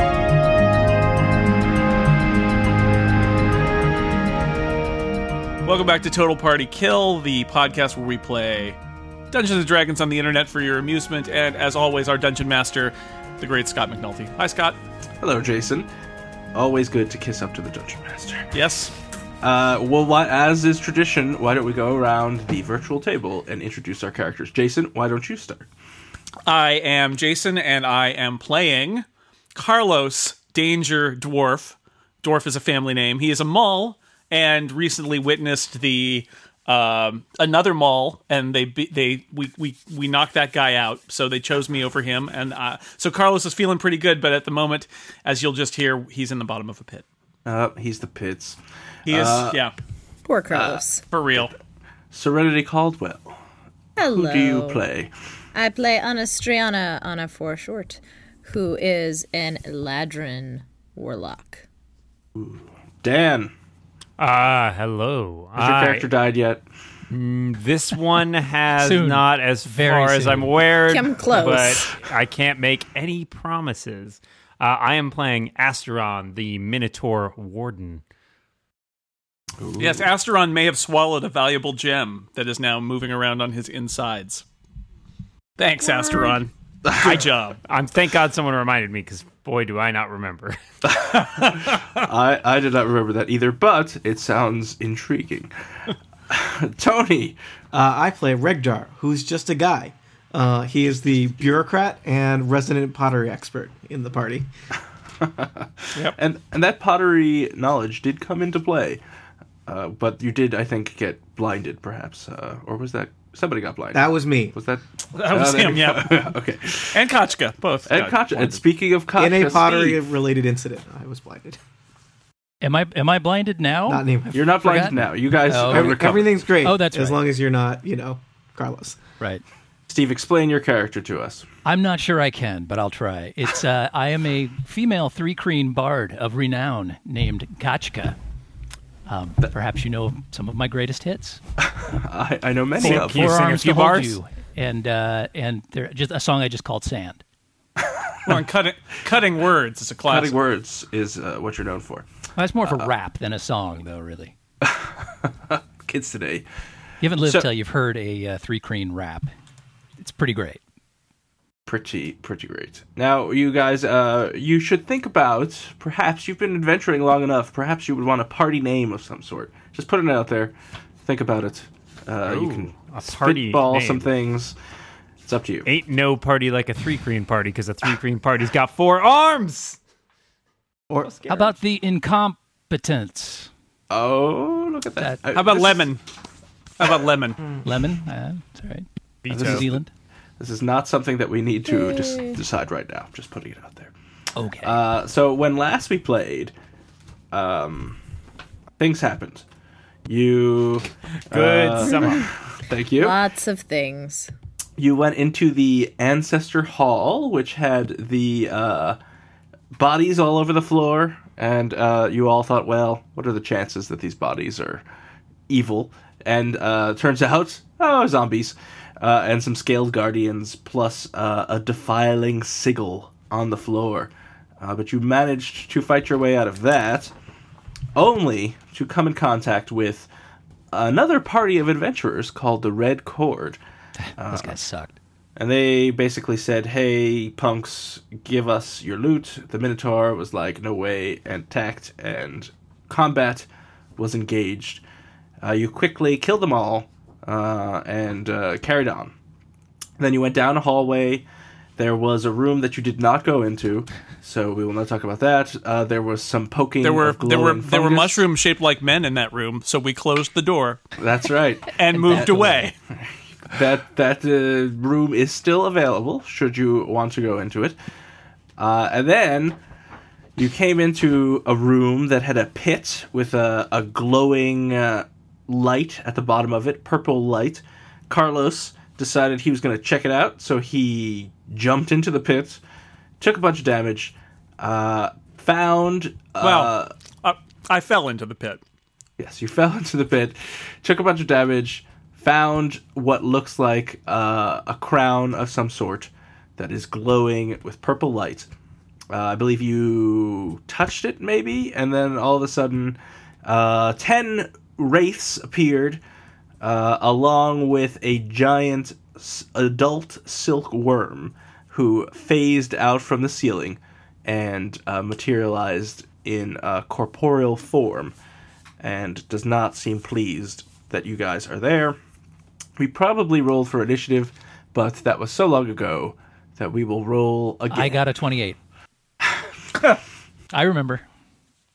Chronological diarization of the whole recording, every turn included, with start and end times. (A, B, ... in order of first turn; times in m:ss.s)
0:05.6-0:08.8 A
0:09.3-0:14.8 A
0:15.2-0:15.9 B
0:16.5-0:18.5 B
0:18.5-0:18.9 A
0:19.4-0:25.7 B
0:26.5-0:47.0 A
0:47.5-0:49.6 B
0:49.1-0:49.7 A
0:50.3-0:51.0 C
0:50.5-0:50.8 B
0:51.1-0:51.5 A
0:52.1-0:53.4 B
0:54.0-0:54.8 C
0:54.1-0:55.1 B
0:55.5-1:01.7 C
1:02.4-1:03.5 B
1:04.2-1:06.1 D
1:05.6-1:06.6 B
1:07.1-1:18.0 D
1:08.8-1:10.8 E
1:10.8-1:11.9 C
1:19.6-1:20.1 B
1:19.8-1:24.4 A
1:25.6-1:27.6 A
1:26.9-1:27.2 B
1:27.0-1:30.6 D
1:30.9-1:35.5 B
1:36.3-1:37.4 B
1:37.7-1:44.5 F
1:45.2-1:49.0 B
1:49.7-1:57.0 B
1:53.9-1:54.5 F
1:55.1-1:56.2 A
1:56.9-1:58.6 A
1:57.9-2:00.0 B
1:59.2-2:01.6 F
2:02.6-2:04.0 E
2:03.9-2:04.5 F
2:04.3-2:06.4 B
2:04.6-2:07.2 E
2:05.6-2:09.0 F
2:09.9-2:11.4 B
2:11.6-2:18.2 E
2:19.1-2:21.4 E
2:21.8-2:23.4 B
2:22.8-2:27.2 E
2:22.8-2:24.2 A
2:22.8-2:23.3 D
2:28.3-2:30.4 A
2:30.1-2:32.1 B
2:32.4-2:34.3 E
2:34.6-2:36.5 B
2:37.0-2:39.3 E
2:40.0-2:40.6 E
2:41.7-2:50.5 B
2:51.1-2:54.6 B
2:52.2-2:54.1 D
2:55.3-2:55.7 B
2:55.7-2:59.8 D
3:01.0-3:01.6 D
3:01.3-3:03.5 E
3:03.9-3:05.9 B
3:05.0-3:05.2 E
3:05.3-3:06.0 A
3:06.8-3:07.4 A
3:07.6-3:09.9 E
3:09.2-3:09.7 D
3:09.3-3:09.8 B
3:10.4-3:13.9 B
3:11.7-3:12.4 C
3:14.4-3:14.8 E
3:14.6-3:16.5 B
3:17.3-3:18.0 B
3:18.8-3:19.4 B
3:20.1-3:23.2 B
3:21.3-3:22.2 D
3:23.0-3:24.3 C
3:24.8-3:29.0 B
3:29.8-3:34.8 B
3:35.5-3:47.1 B
3:48.0-3:50.1 B
3:50.7-3:53.6 B
3:54.0-3:55.0 E
3:54.2-3:54.6 B
3:55.4-4:04.8 B
4:05.4-4:09.1 B
4:10.0-4:11.3 B
4:11.8-4:18.2 B
4:16.8-4:20.8 A
4:21.0-4:27.8 B
4:21.7-4:22.7 A
4:22.0-4:22.6 E
4:28.6-4:29.6 B
4:30.4-4:42.6 B
4:43.2-4:46.9 B
4:46.4-4:48.6 A
4:49.2-4:58.5 B
4:59.1-5:06.0 B
5:06.6-5:18.2 B
5:18.8-5:22.0 B
5:22.8-5:28.0 B
5:27.7-5:28.6 E
5:30.5-5:31.0 E